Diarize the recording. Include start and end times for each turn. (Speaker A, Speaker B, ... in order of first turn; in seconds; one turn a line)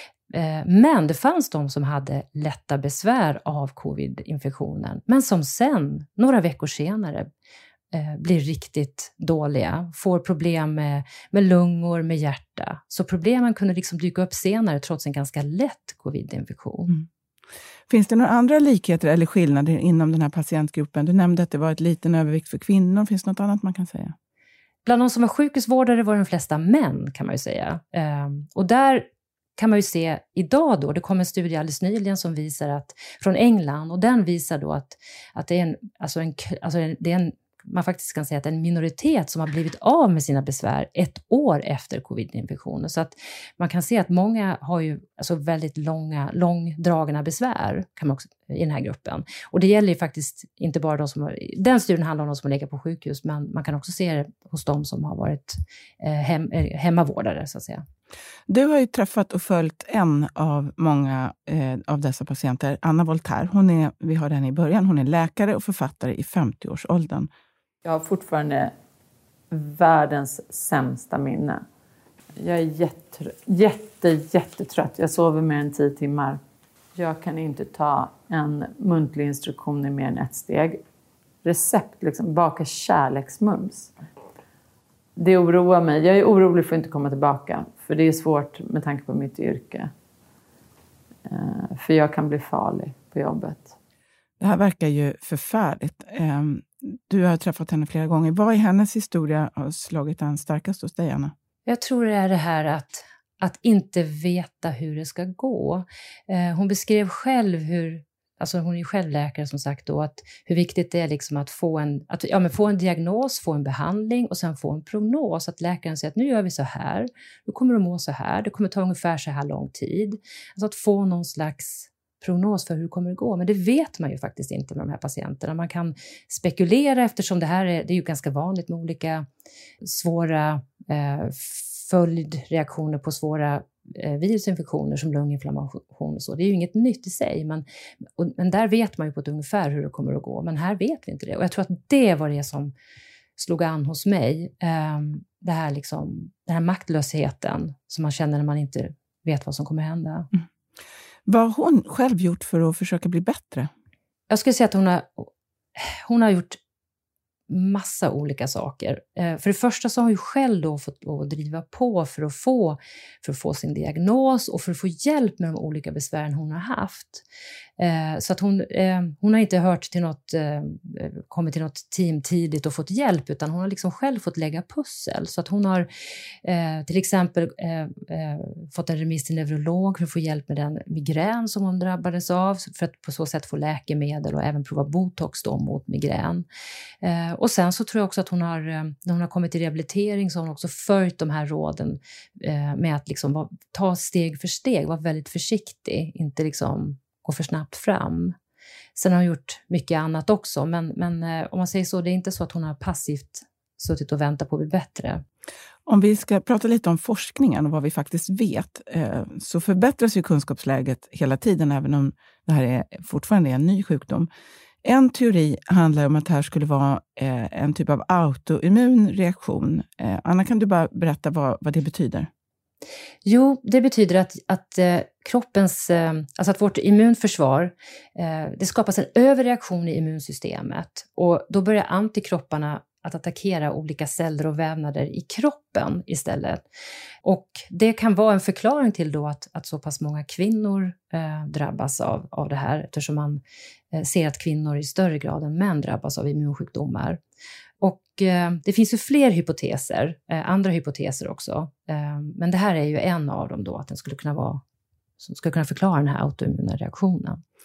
Speaker A: 0.3-7.3
Speaker A: 7.9-17.0
Speaker B: 17.9-24.1
Speaker A: 24.8-29.0
Speaker A: 29.6-57.8
Speaker B: 58.5-67.3
Speaker C: 67.8-68.7
Speaker C: 69.5-71.6
Speaker C: 72.3-76.4
Speaker C: 77.0-80.8
Speaker C: 81.4-83.9
Speaker C: 85.2-89.9
Speaker C: 91.2-93.7
Speaker B: 94.4-101.3
Speaker A: 101.6-129.2
Speaker A: 129.8-137.6
Speaker A: 138.2-142.7
Speaker A: 143.3-150.3
Speaker B: 151.3-153.7
Speaker A: 154.3-156.6
Speaker A: 157.5-167.2
Speaker A: 167.8-175.9
Speaker A: 176.4-186.4
Speaker A: 187.0-198.3
Speaker A: 198.9-205.2
Speaker B: 205.9-214.3
Speaker B: 214.8-222.3
Speaker A: 223.2-236.6
Speaker A: 237.2-243.4
Speaker A: 243.9-247.2
Speaker A: 247.8-254.6
Speaker A: 255.2-257.4